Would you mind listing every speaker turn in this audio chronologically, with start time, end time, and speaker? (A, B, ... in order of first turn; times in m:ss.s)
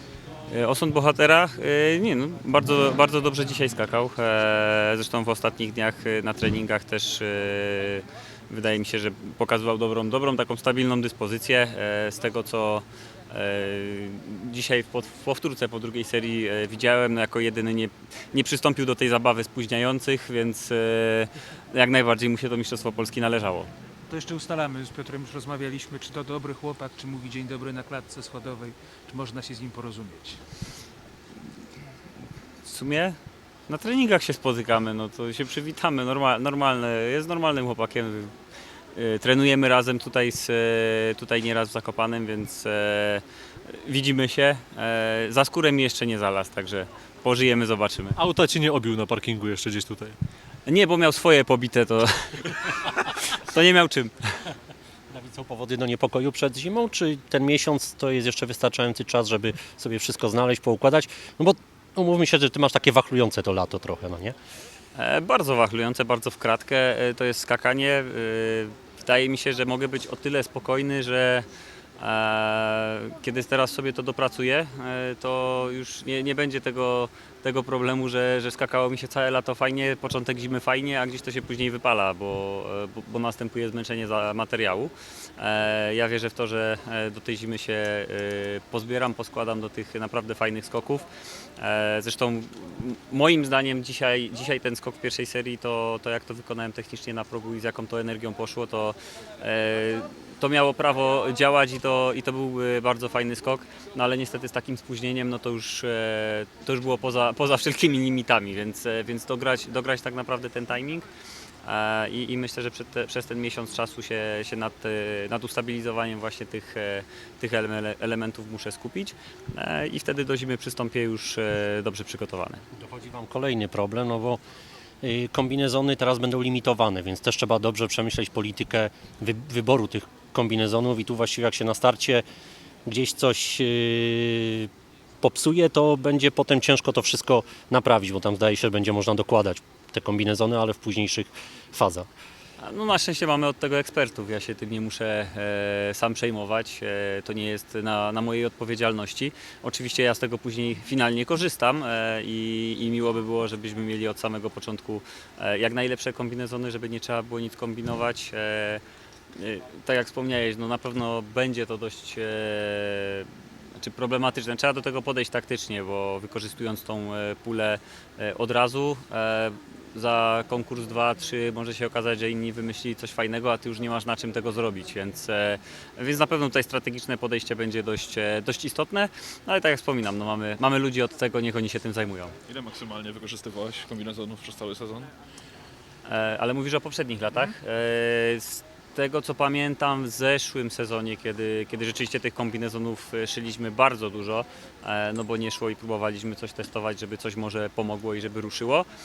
0:00.5-0:23.7 A
0:24.1-0:30.4 B
0:32.6-0:33.2 A
0:33.7-0:38.3 A
0:39.0-0:48.2 A
0:48.2-0:50.2 C
0:50.7-0:52.7 A
0:53.3-0:54.3 A
0:55.1-1:04.4 D
1:05.0-1:11.5 A
1:12.0-1:31.1 A
1:31.6-1:51.1 A
1:51.6-2:02.6 A
2:02.8-2:04.4 D
2:05.0-2:12.2 D
2:12.9-2:14.7 D
2:15.2-2:22.1 D
2:22.6-2:38.8 A
2:39.4-3:02.3 A
3:02.5-3:05.1 E
3:06.1-3:18.9 A